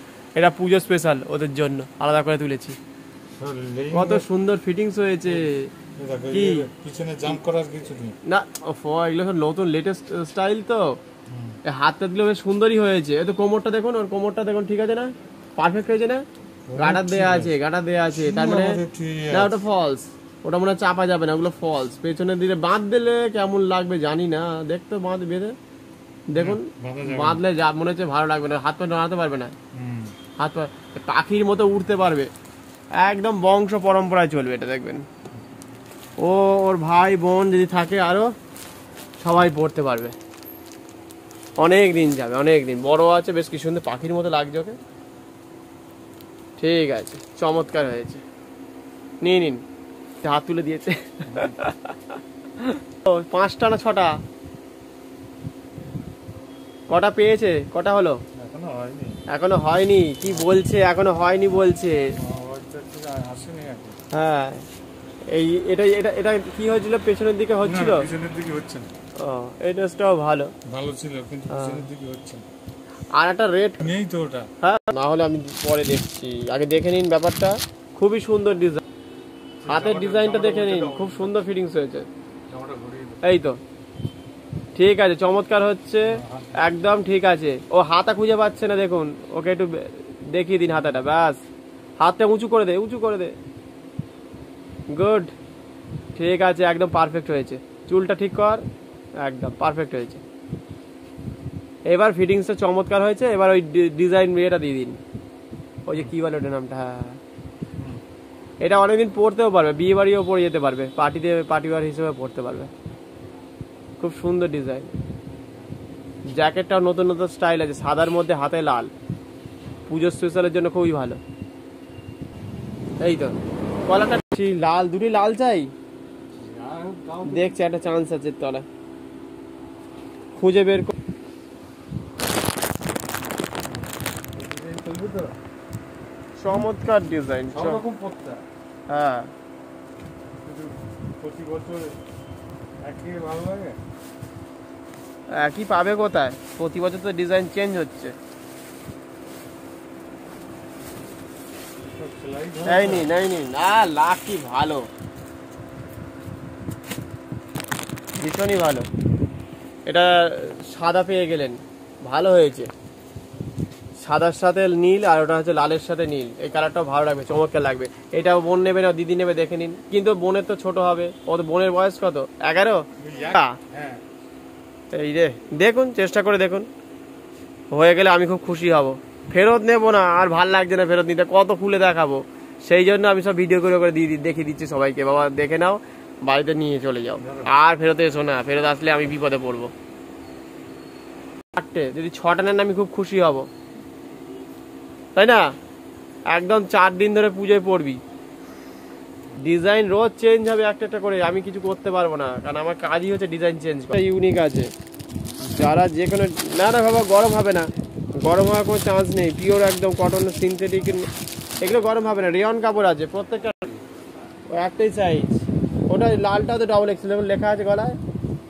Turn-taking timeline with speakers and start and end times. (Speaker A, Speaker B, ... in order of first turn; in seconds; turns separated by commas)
Speaker A: 0.3-2.8, Speaker B: 3.4-4.2, Speaker A: 3.9-5.7, Speaker B: 6.0-8.2, Speaker A: 6.3-6.7, Speaker A: 8.2-11.0, Speaker B: 11.3-11.6, Speaker A: 11.6-16.2, Speaker B: 16.7-17.5, Speaker A: 16.8-18.8, Speaker B: 18.1-19.5, Speaker A: 19.3-25.5, Speaker A: 26.3-29.5, Speaker B: 26.4-27.4, Speaker B: 29.7-30.1, Speaker A: 30.4-32.3, Speaker A: 33.0-35.0, Speaker A: 36.2-38.3, Speaker A: 39.2-40.1, Speaker A: 41.6-44.8, Speaker A: 46.6-48.2, Speaker A: 49.2-49.6, Speaker A: 50.2-54.1, Speaker B: 51.3-51.6, Speaker A: 56.9-58.2, Speaker B: 58.3-59.2, Speaker A: 59.3-62.1, Speaker B: 60.2-60.5, Speaker B: 62.2-64.0, Speaker A: 64.1-64.6, Speaker A: 65.3-68.1, Speaker B: 67.6-68.9, Speaker A: 69.2-70.5, Speaker B: 70.7-72.4, Speaker A: 71.5-71.8, Speaker A: 73.1-73.9, Speaker B: 73.8-74.5, Speaker A: 74.6-78.8, Speaker B: 79.6-81.3, Speaker A: 79.7-82.1, Speaker B: 82.5-83.2, Speaker A: 83.2-83.6, Speaker A: 84.8-91.4, Speaker B: 86.1-86.6, Speaker A: 92.0-93.3, Speaker A: 94.9-95.3, Speaker A: 96.2-98.6, Speaker A: 99.2-100.2, Speaker A: 101.9-105.0, Speaker A: 105.8-107.2, Speaker A: 108.6-112.7, Speaker A: 114.0-114.9, Speaker A: 116.3-118.9, Speaker A: 119.9-121.2, Speaker A: 123.0-125.7, Speaker B: 126.3-127.5, Speaker A: 127.2-128.6, Speaker A: 130.3-130.9, Speaker B: 134.3-135.3, Speaker A: 136.4-137.8, Speaker B: 137.5-138.4, Speaker A: 138.9-139.3, Speaker B: 140.4-142.0, Speaker B: 142.8-143.8, Speaker A: 145.3-148.1, Speaker B: 152.0-153.1, Speaker A: 152.6-154.9, Speaker A: 158.2-158.9, Speaker A: 159.8-162.7, Speaker A: 164.0-173.6, Speaker B: 173.0-174.0, Speaker A: 174.9-176.7, Speaker A: 177.7-189.7, Speaker B: 187.2-187.5, Speaker A: 191.5-193.5, Speaker A: 195.2-195.5, Speaker A: 196.3-198.0, Speaker A: 199.4-204.7, Speaker A: 205.4-207.6, Speaker A: 208.2-211.1, Speaker A: 211.6-213.8, Speaker A: 214.5-218.0